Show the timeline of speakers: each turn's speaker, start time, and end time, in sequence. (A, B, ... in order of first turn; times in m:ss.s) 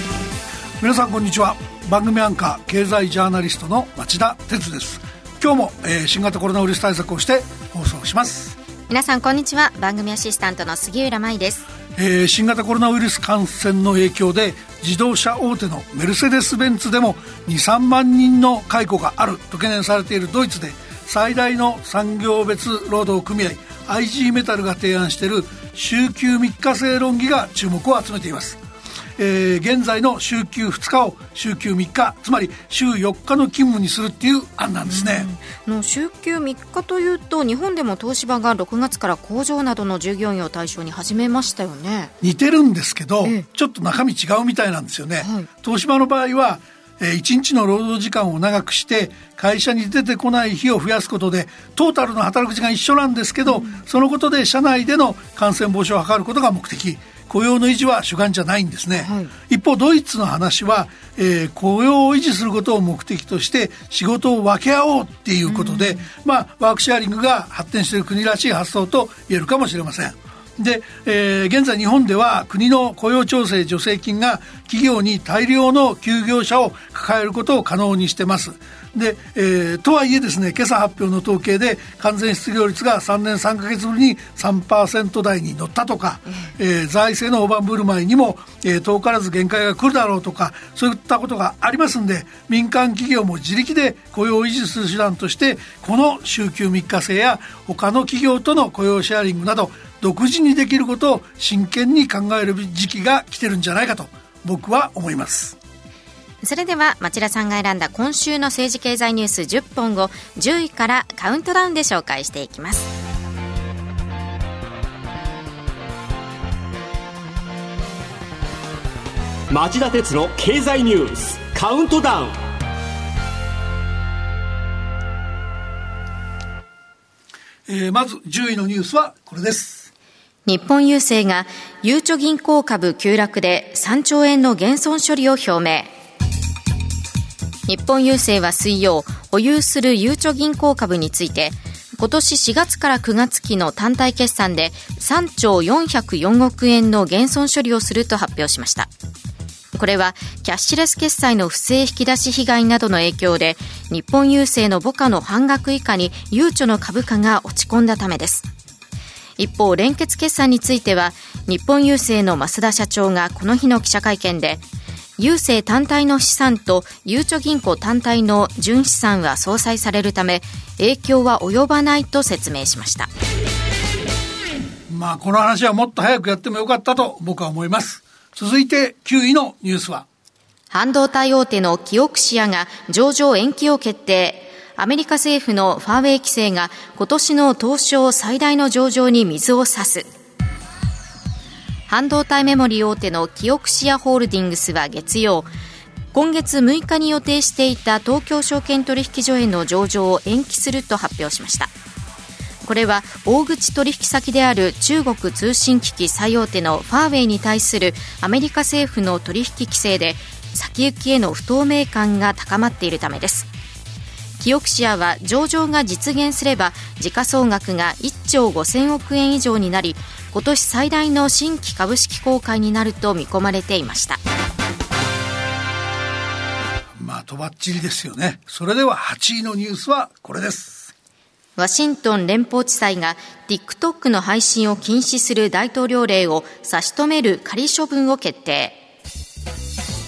0:00.8-0:08.5 A
0:08.9-0:11.6 B
0:12.0-0:28.6 A
0:29.2-0:35.3 A
0:34.9-0:42.1 B
0:42.2-1:45.6 A
0:45.2-0:45.5 B
0:53.5-0:53.8 B
0:59.0-0:59.3 B
1:05.5-1:06.1 B
1:46.4-1:52.9 B
1:59.5-2:02.4 C
2:07.7-2:09.9 A
2:10.4-2:15.9 B
2:17.7-2:28.9 B
2:29.7-2:38.4 B
2:39.4-2:44.6 B
2:45.2-2:53.1 B
2:54.9-3:00.0 A
3:00.7-3:10.1 B
3:11.9-3:15.5 B
3:16.1-3:21.7 B
3:22.6-3:33.5 B
3:34.4-3:44.2 B
3:47.0-3:50.9 A
3:51.6-3:58.8 B